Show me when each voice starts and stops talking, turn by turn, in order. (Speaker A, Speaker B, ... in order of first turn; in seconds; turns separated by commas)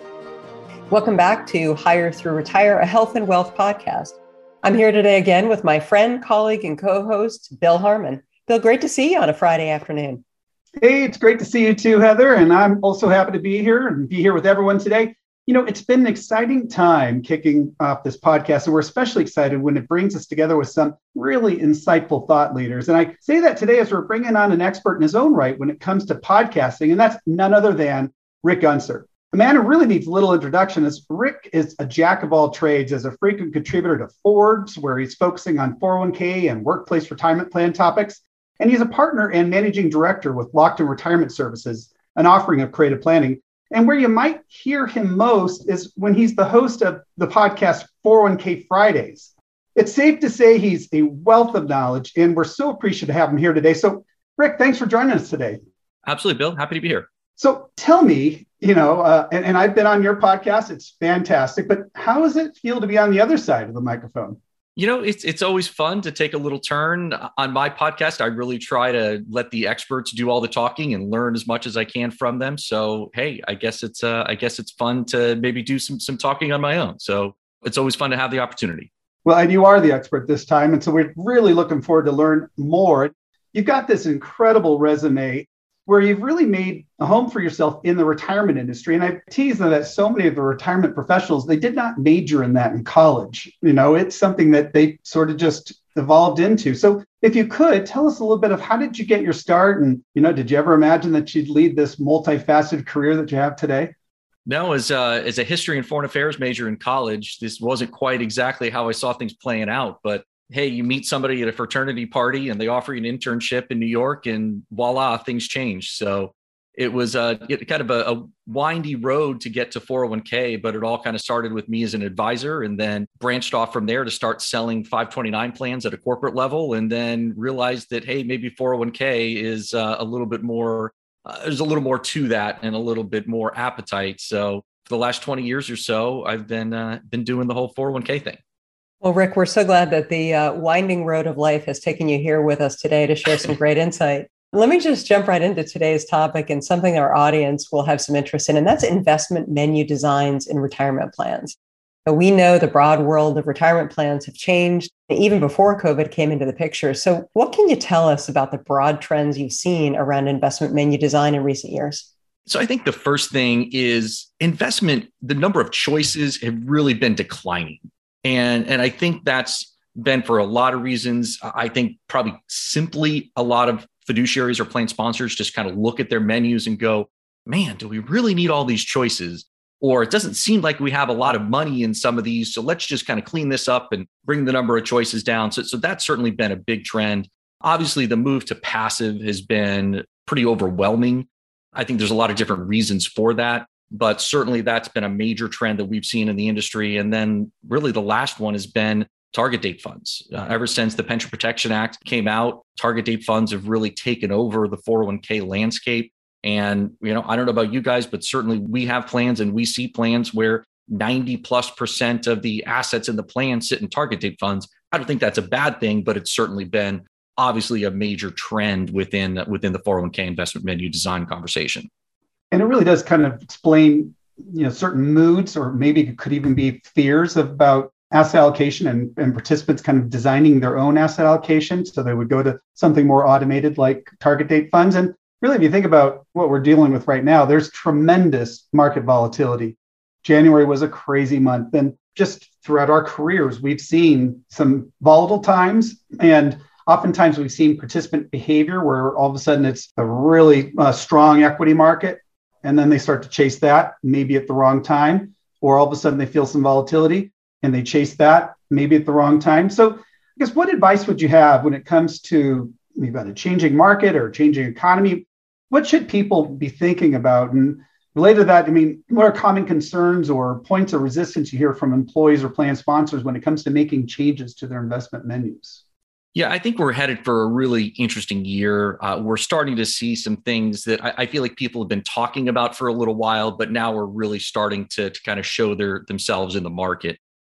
Speaker A: 0.9-10.2, Speaker B: 10.8-55.6, Speaker C: 56.1-57.1, Speaker B: 57.4-64.4, Speaker C: 64.8-78.9, Speaker B: 79.2-103.9, Speaker C: 104.5-138.4, Speaker A: 139.0-151.6, Speaker A: 152.1-162.1, Speaker C: 162.5-221.9, Speaker B: 222.5-275.8, Speaker C: 276.4-287.2